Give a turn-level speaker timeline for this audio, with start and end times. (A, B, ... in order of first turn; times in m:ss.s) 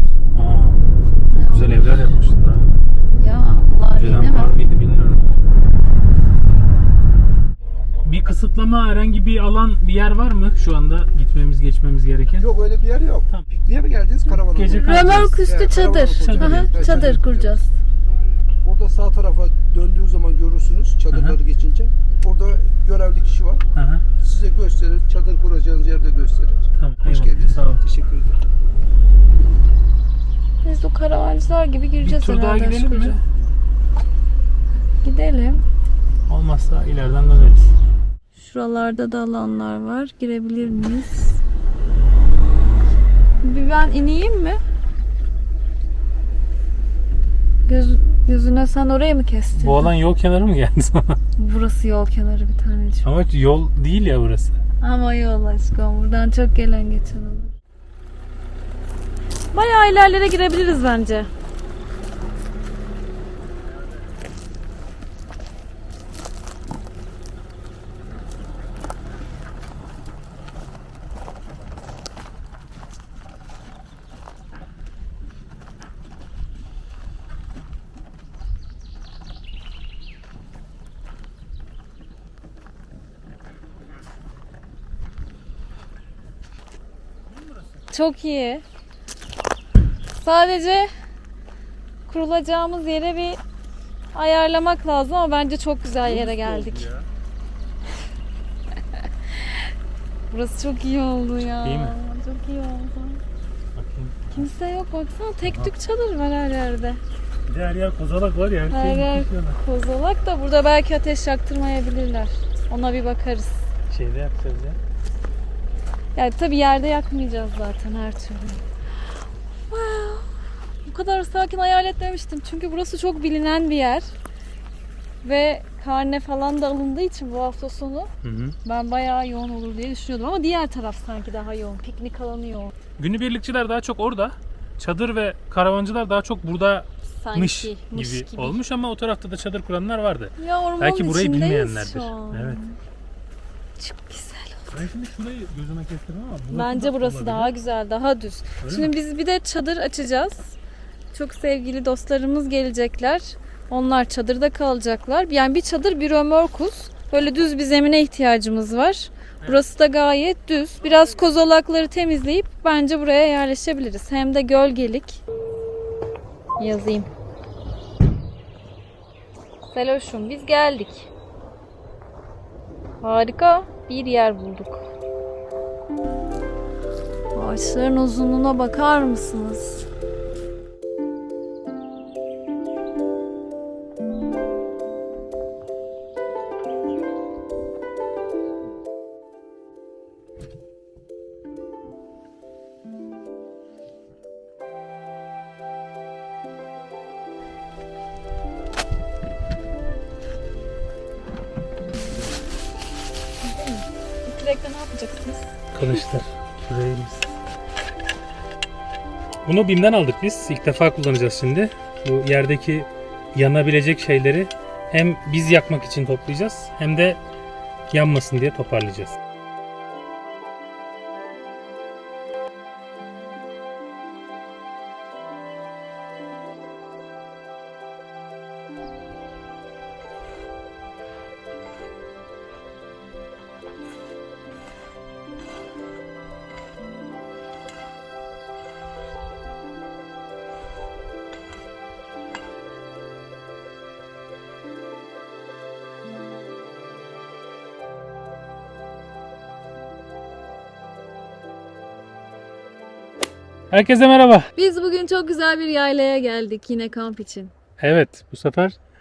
0:00.3-0:02.7 A
0:01.3-0:01.9 B
0:03.2-0:04.5 B
0:04.0-0:05.4 A
0:08.0-0:12.5 A
0:12.3-0:17.6 C
0:14.3-0:15.4 A
0:14.7-0:17.7 B
0:16.2-0:17.2 A
0:18.6-0:23.6 C
0:21.1-0:21.4 A
0:23.7-0:24.0 A
0:24.2-0:28.4 C
0:26.7-0:27.8 A
0:30.6-0:33.2 B
0:32.0-0:33.2 A
0:35.0-0:35.6 B
0:36.3-0:37.7 A
0:38.3-0:41.4 B
0:43.4-0:44.6 B
0:47.6-0:49.9 B
0:49.6-0:51.2 A
0:51.4-0:53.0 B
0:53.0-0:54.6 A
0:54.8-0:57.5 B
0:59.5-1:01.3 B
1:27.3-1:27.8 A
1:27.9-1:28.6 B
1:30.2-1:30.9 B
1:32.1-1:33.4 B
1:34.1-1:36.8 B
1:36.0-1:37.1 A
1:39.0-1:39.7 B
1:40.3-1:43.2 B
1:41.6-1:42.0 A
1:43.7-1:44.5 A
1:44.3-1:47.0 B
1:45.4-1:45.7 A
1:47.4-1:49.6 A
1:48.7-1:53.7 B
1:53.9-1:54.8 A
1:56.1-1:58.6 B
1:59.7-2:04.1 B
2:05.2-2:08.1 B
2:08.2-2:08.6 A
2:08.6-2:12.7 B
2:13.0-2:22.6 A
2:17.1-2:18.6 B
2:20.4-2:22.7 B
2:23.8-2:24.8 B
2:24.7-2:27.5 A
2:26.5-2:30.6 B
2:28.6-2:28.9 A
2:31.1-2:45.2 B
2:39.4-2:39.6 A
2:40.8-2:41.2 A
2:46.6-2:47.1 B
2:49.7-2:51.1 B
2:53.0-2:54.8 B
2:57.3-2:59.8 B
3:23.4-3:25.5 B
3:25.7-3:27.3 A
3:29.4-3:37.2 A
3:37.9-3:39.2 A
4:13.7-4:14.5 A
4:14.6-4:17.5 B
4:17.8-4:18.8 A